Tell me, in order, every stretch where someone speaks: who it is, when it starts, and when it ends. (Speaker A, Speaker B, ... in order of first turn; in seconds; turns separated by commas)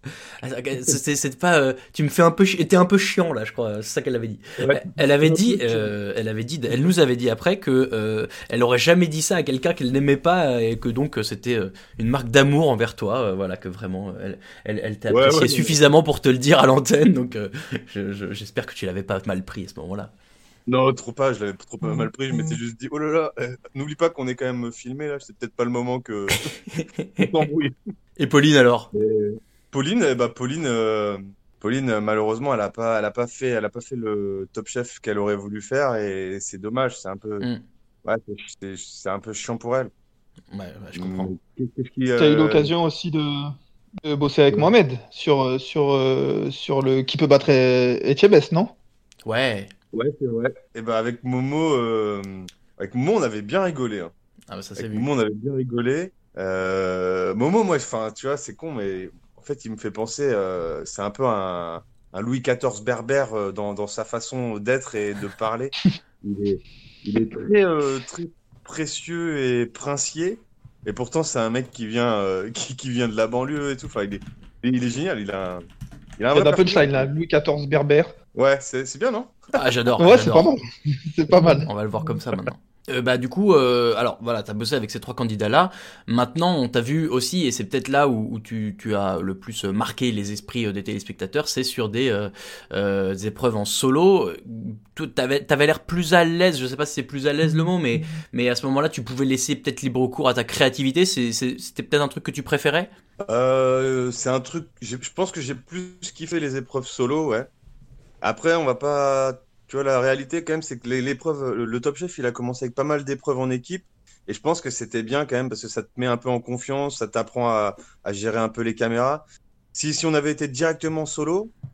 Speaker A: 0.4-20.1, Speaker B: 4.6-6.0, Speaker B: 15.1-15.8, Speaker B: 20.7-26.4, Speaker A: 26.7-27.4, Speaker B: 27.2-27.7, Speaker A: 28.2-28.9, Speaker B: 28.9-37.5, Speaker B: 38.0-39.9, Speaker A: 40.5-41.3, Speaker B: 41.0-42.7, Speaker C: 42.2-43.5, Speaker C: 44.0-48.7, Speaker A: 49.2-49.7, Speaker B: 49.9-54.1, Speaker A: 54.5-55.1, Speaker B: 54.8-75.6, Speaker B: 76.2-77.1, Speaker C: 76.3-78.2, Speaker B: 78.3-79.4, Speaker A: 79.5-80.5, Speaker C: 80.0-81.7, Speaker A: 81.7-102.9, Speaker B: 103.3-107.5, Speaker B: 108.2-121.5